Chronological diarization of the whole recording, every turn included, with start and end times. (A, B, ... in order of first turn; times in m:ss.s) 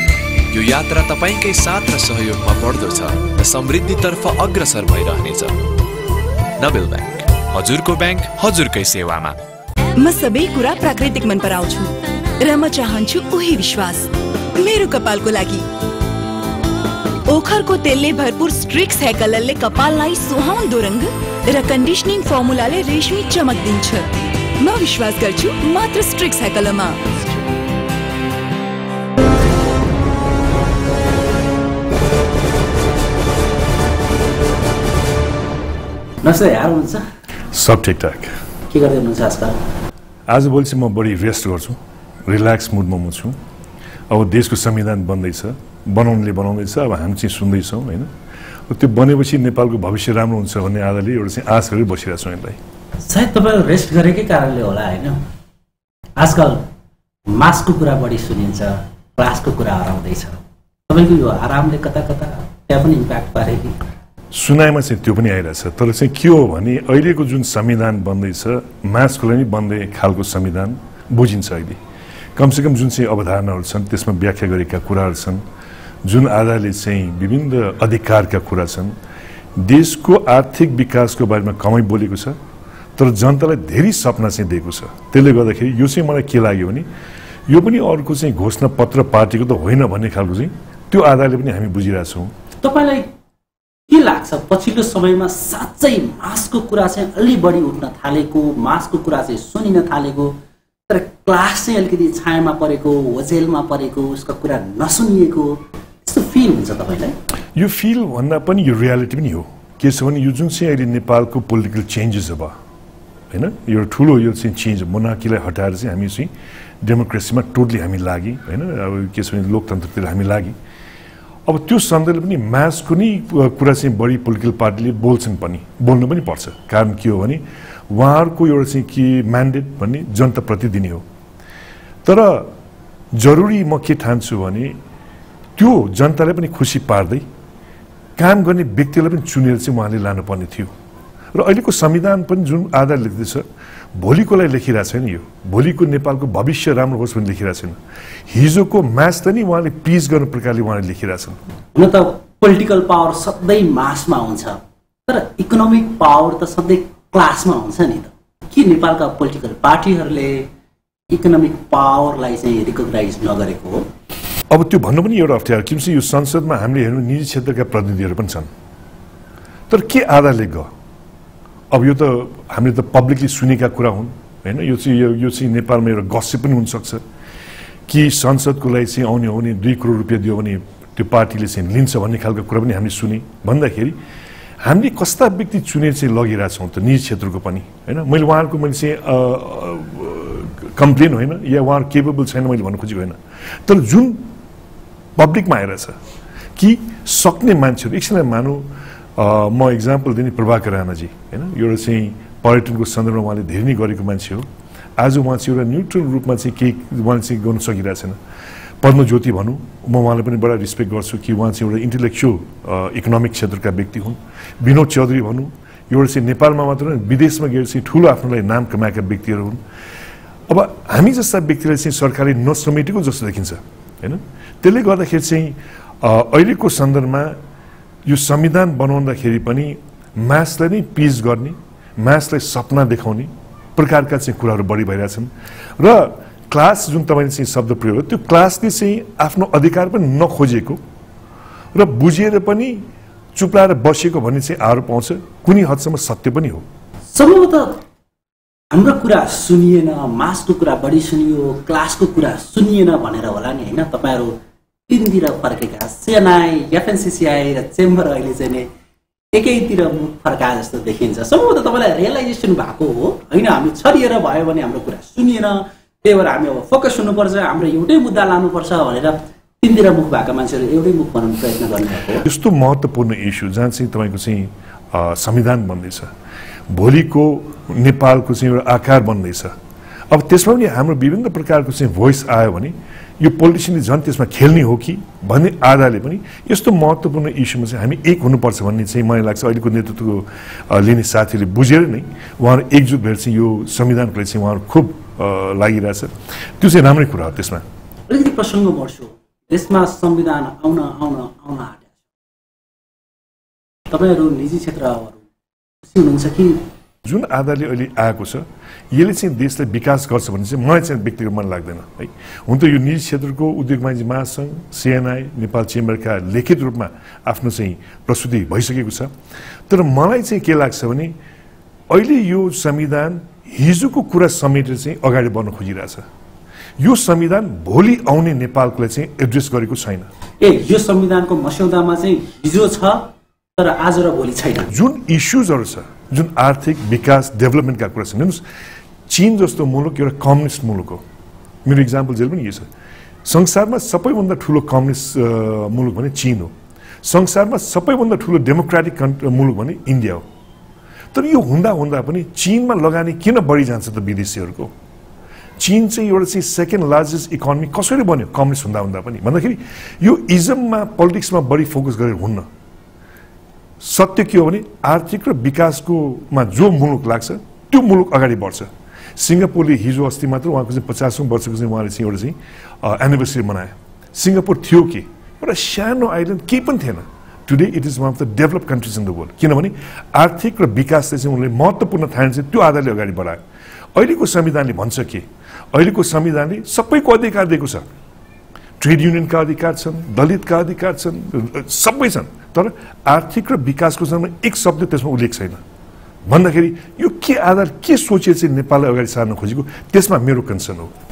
0:00.5-0:05.6 A
0:06.6-0:09.4 A
0:10.0-0:15.6 B
0:17.3-0:27.0 B
0:36.2-0:37.0 C
0:37.5-0:38.4 D
0:38.7-0:39.6 C
0:40.3-0:43.4 D
0:44.1-0:48.1 D
0:48.7-0:52.6 D
0:53.0-0:55.2 C
0:56.2-0:56.7 C
0:57.3-1:03.8 C
1:04.3-1:11.8 D
1:12.4-1:15.4 D
1:16.0-1:19.0 D
1:19.6-1:22.4 D
1:23.0-1:26.9 D
1:27.5-1:32.3 D
1:32.6-1:33.1 C
1:33.9-1:40.4 C
1:40.9-1:47.2 C
1:47.6-1:52.6 D
1:53.3-1:56.3 D
1:56.8-2:00.6 D
2:01.4-2:11.0 D
2:12.0-2:12.5 D
2:13.1-2:14.8 D
2:15.6-2:17.3 D
2:18.2-2:20.7 D
2:21.3-2:31.4 D
2:31.8-2:40.5 C
2:41.1-2:43.9 C
2:44.5-2:48.5 D
2:49.7-2:50.7 D
2:51.7-2:57.0 D
2:57.9-3:04.0 D
3:04.6-3:14.3 D
3:15.2-3:16.0 D
3:16.6-3:24.5 D
3:25.0-3:28.2 D
3:28.8-3:39.6 D
3:40.5-3:47.4 D
3:48.0-4:00.8 D
4:01.7-4:06.7 D
4:07.1-4:07.8 C
4:08.7-4:14.4 C
4:14.9-4:18.7 C
4:19.3-4:32.2 C
4:32.2-4:36.1 D
4:36.7-4:39.5 D
4:40.1-4:57.6 D
4:58.1-5:01.9 C
5:03.9-5:05.2 C
5:05.9-5:06.6 C
5:07.0-5:19.1 D
5:19.7-5:21.2 D
5:21.9-5:26.1 D
5:26.8-5:30.1 D
5:30.4-5:34.7 C
5:34.7-5:38.4 D
5:39.1-5:41.0 D
5:41.6-5:42.7 D
5:43.2-5:50.3 D
5:51.1-5:54.7 D
5:55.6-6:02.5 D
6:03.8-6:23.4 D
6:23.9-6:27.9 D
6:28.8-6:35.6 D
6:36.3-6:40.9 D